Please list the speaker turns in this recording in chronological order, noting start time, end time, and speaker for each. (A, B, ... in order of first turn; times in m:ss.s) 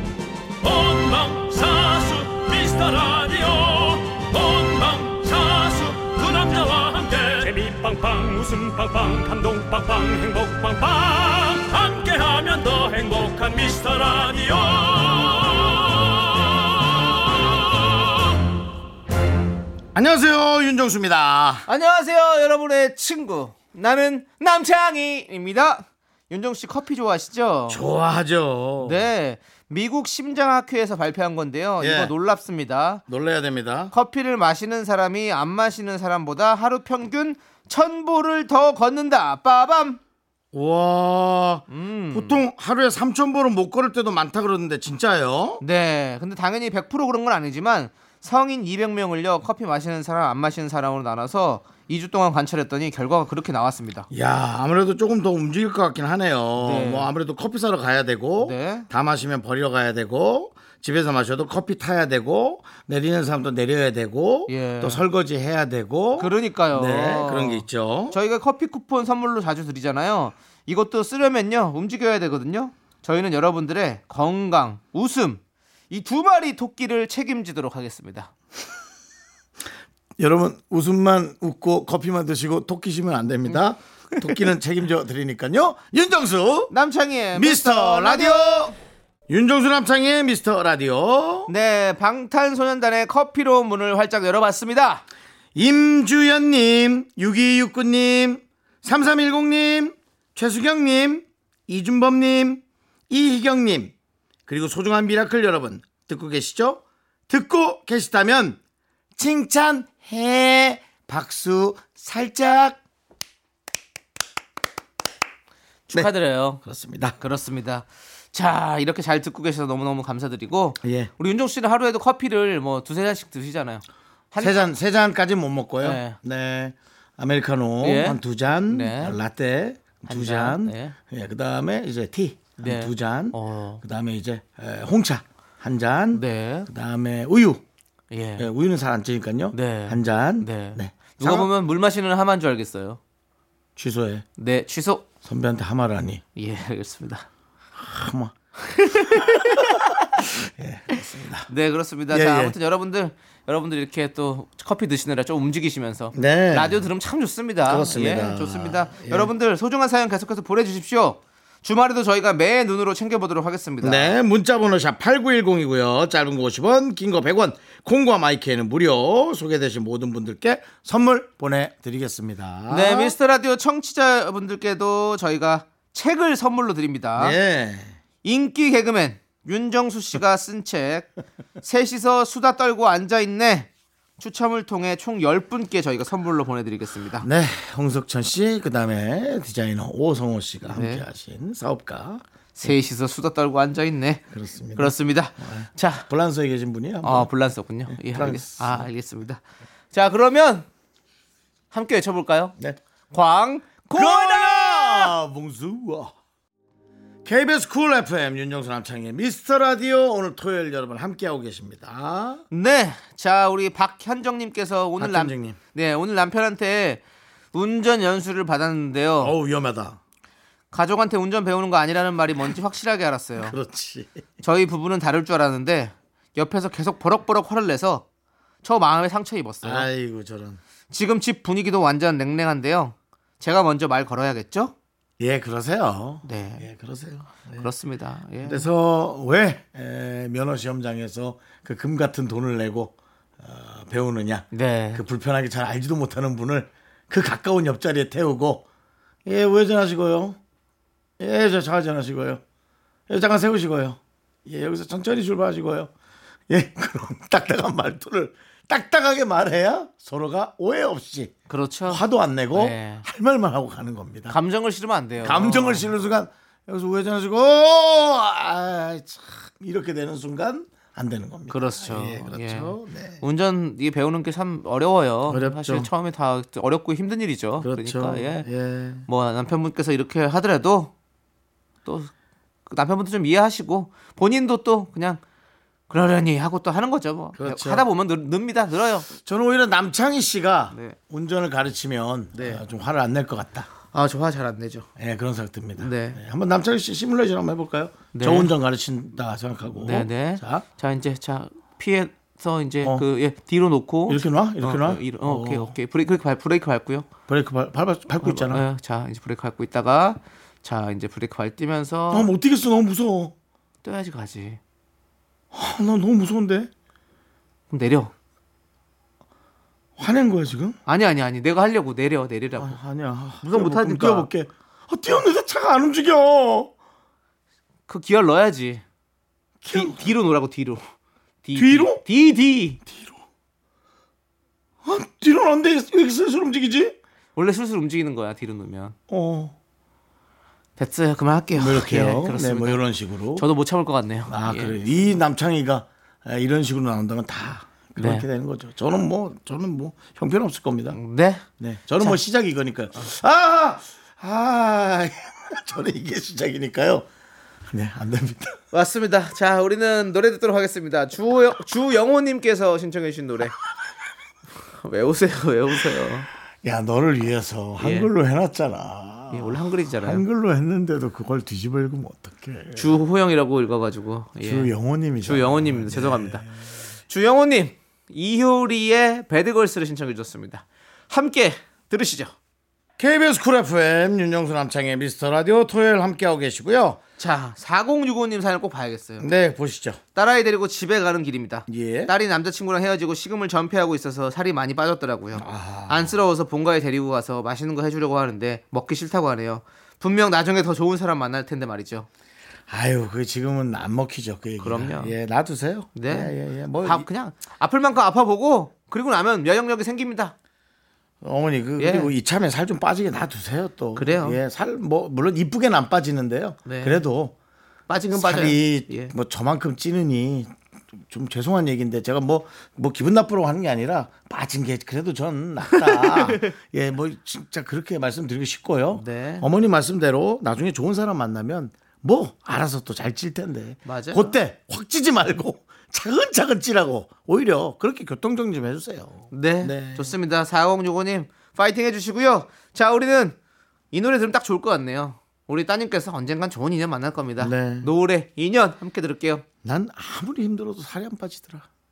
0:00.6-0:18.3 A
0:19.9-0:21.7 B
0:21.7-0:27.8 C
0:27.7-0:29.0 B
0:28.8-0:33.0 C
0:31.8-0:32.1 B
0:33.1-0:33.9 B
0:33.9-0:40.0 C
0:40.5-0:45.6 B
0:41.7-0:42.4 C
0:45.6-0:54.1 C
0:54.1-1:08.2 B
0:56.6-0:57.1 C
0:58.4-0:58.9 C
1:04.5-1:05.0 C
1:06.2-1:18.3 C
1:20.2-1:26.7 B
1:26.7-1:28.5 C
1:27.3-1:28.7 B
1:29.3-1:31.5 B
1:31.5-1:35.0 C
1:35.5-1:43.9 B
1:44.5-1:48.6 B
1:49.2-1:52.8 B
1:55.9-1:56.6 C
1:55.9-1:57.2 B
1:57.2-2:04.7 C
2:00.8-2:01.1 B
2:04.4-2:17.6 B
2:05.8-2:06.2 C
2:07.8-2:09.2 C
2:10.1-2:11.0 C
2:12.6-2:13.8 C
2:16.1-2:16.7 C
2:18.1-2:18.5 C
2:18.4-2:21.5 B
2:19.5-2:23.0 C
2:23.8-2:24.2 B
2:24.4-2:25.0 C
2:25.2-2:26.2 B
2:26.4-2:27.3 C
2:27.8-2:28.3 B
2:28.6-2:29.8 C
2:29.2-2:31.5 B
2:31.5-2:44.2 C
2:32.1-2:32.5 B
2:36.1-2:36.8 B
2:37.6-2:39.3 B
2:43.8-2:53.2 B
2:52.7-2:57.4 C
2:57.2-2:58.0 B
2:58.2-3:07.3 C
3:07.2-3:12.2 B
3:10.7-3:11.0 C
3:12.6-3:16.1 C
3:14.3-3:17.3 B
3:17.0-3:19.4 C
3:17.9-3:18.9 B
3:19.9-3:20.7 C
3:21.7-3:22.6 C
3:23.1-3:25.1 C
3:23.9-3:26.1 B
3:27.2-3:32.4 B
3:32.5-3:37.0 C
3:35.0-3:35.6 B
3:37.5-3:39.4 C
3:39.2-3:40.0 B
3:40.7-3:43.6 C
3:43.4-3:44.2 B
3:44.4-3:48.0 C
3:48.6-3:49.9 C
3:49.6-3:50.6 B
3:50.9-3:54.7 C
3:55.2-3:57.7 B
3:56.2-3:56.6 C
3:57.6-3:58.7 C
3:58.4-4:08.6 B
4:04.5-4:05.0 C
4:09.2-4:10.4 B
4:11.2-4:12.4 B
4:13.1-4:15.9 B
4:16.5-4:21.3 B
4:21.5-4:23.0 C
4:21.8-4:24.4 B
4:24.3-4:25.9 C
4:25.2-4:33.2 B
4:31.5-4:38.5 C
4:35.3-4:35.9 B
4:37.6-4:39.0 B
4:39.0-4:40.9 C
4:41.8-4:42.1 C
4:42.7-4:45.2 C
4:45.9-4:49.1 C
4:47.4-4:47.8 B
4:49.2-4:53.7 B
4:52.3-4:52.6 C
4:53.9-4:54.9 C
4:55.0-5:00.6 B
4:55.8-4:56.2 C
4:58.1-4:58.5 C
4:59.8-5:07.1 C
5:04.1-5:05.7 B
5:07.3-5:08.6 B
5:08.2-5:12.3 C
5:12.1-5:13.3 B
5:13.8-5:14.6 C
5:15.5-5:16.7 B
5:17.7-5:18.1 C
5:20.0-5:20.8 B
5:20.8-5:22.8 C
5:22.6-5:26.7 B
5:23.4-5:24.3 C
5:27.9-5:28.8 C
5:29.6-5:30.0 B
5:29.7-5:30.8 C
5:31.4-5:32.8 C
5:31.5-5:32.0 B
5:32.8-5:33.2 B
5:34.8-5:37.0 B
5:37.4-5:39.0 C
5:39.1-5:39.5 B
5:40.8-5:42.8 C
5:41.5-5:43.4 B
5:43.4-5:44.8 C
5:44.3-5:51.0 B
5:48.0-5:48.2 C
5:50.9-5:51.4 C
5:51.6-5:57.1 B
5:57.7-5:58.6 B
5:58.7-6:03.6 C
6:04.8-6:06.3 C
6:06.6-6:12.9 B
6:07.8-6:08.1 C
6:09.3-6:10.2 C
6:12.7-6:14.7 C
6:14.4-6:16.5 B
6:15.2-6:16.4 C
6:17.1-6:22.3 C
6:23.0-6:27.0 B
6:27.2-6:29.2 C
6:29.2-6:30.0 B
6:30.1-6:42.1 C
6:31.7-6:32.1 B
6:35.4-6:36.1 B
6:42.7-6:47.0 B
6:44.6-6:45.1 C
6:45.9-6:50.3 C
6:51.2-6:57.3 B
6:51.8-6:52.1 C
6:54.0-6:54.4 C
6:56.6-6:57.0 C
6:57.9-6:59.1 C
6:58.1-7:20.1 B
7:05.7-7:06.5 C
7:08.9-7:09.5 C
7:13.8-7:14.3 C
7:19.3-7:23.4 C
7:23.9-7:29.4 C
7:27.4-7:27.9 B
7:29.6-7:31.7 B